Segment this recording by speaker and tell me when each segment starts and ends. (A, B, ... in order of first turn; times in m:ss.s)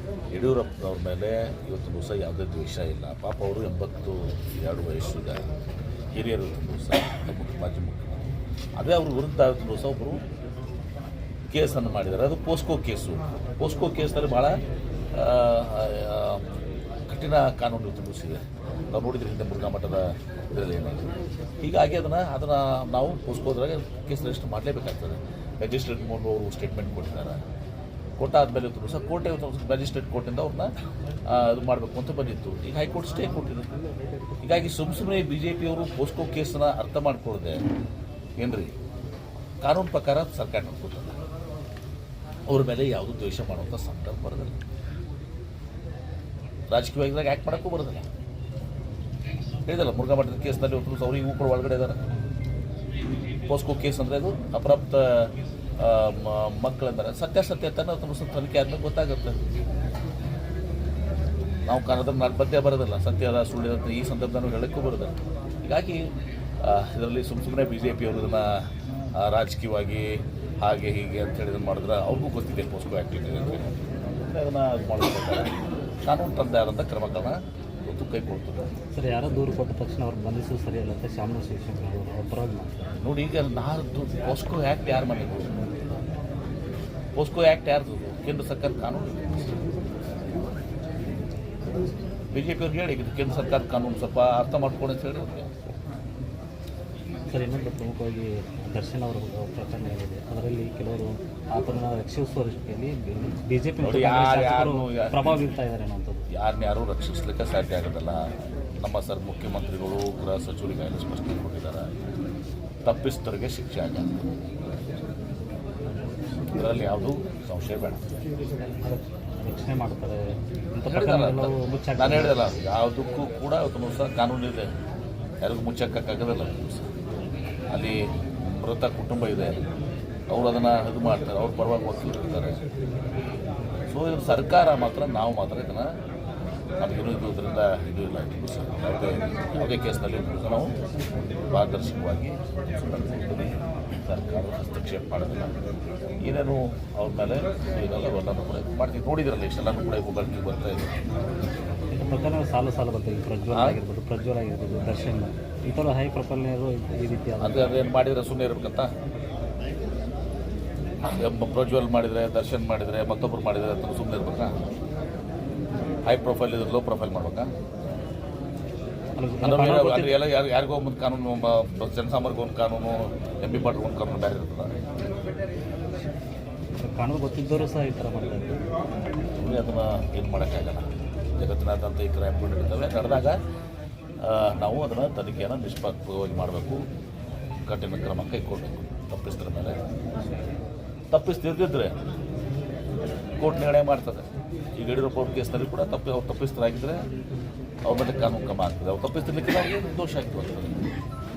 0:00.3-0:05.4 A
0:06.2-0:08.2 A
0:08.8-0:10.2 A
0:11.5-0:14.5 A
0:15.1-0:16.5 A
0:17.1-0:27.4 A
0:28.2-0:30.7 A
0:31.3-0:33.7 A
0:34.4-0:37.6 A
0:38.4-0:38.7 A
0:39.6-0:41.2 A
0:42.5-0:44.6 A
0:46.7-0:48.0 A
0:49.7-0:52.0 A
0:53.5-0:59.4 A
1:01.7-1:06.1 A
1:06.6-1:08.6 A
1:09.2-1:15.5 A
1:16.0-1:18.7 A
1:18.9-1:23.0 B
1:23.0-1:25.6 A
1:27.2-1:29.6 A
1:32.3-1:35.5 A
1:37.3-1:46.2 B
1:43.8-1:45.4 A
1:46.3-1:48.2 A
1:48.8-1:51.9 A
1:52.8-1:54.2 A
1:56.5-1:58.0 A
1:58.8-2:02.5 B
2:00.8-2:04.7 A
2:05.4-2:06.9 A
2:07.7-2:09.6 A
2:10.3-2:12.6 A
2:13.9-2:15.9 A
2:16.8-2:20.7 A
2:21.5-2:25.5 A
2:26.2-2:31.0 A
2:31.9-2:37.9 B
2:33.5-2:33.8 A
2:37.4-2:38.9 A
2:41.0-2:44.5 A
2:46.1-2:47.5 A
2:49.2-2:50.2 B
2:49.4-2:54.7 A
2:56.8-2:58.6 B
2:59.4-3:03.4 A
3:04.2-3:06.8 A
3:07.6-3:09.8 A
3:11.1-3:11.9 A
3:13.4-3:14.2 A
3:14.8-3:17.0 A
3:17.8-3:20.8 A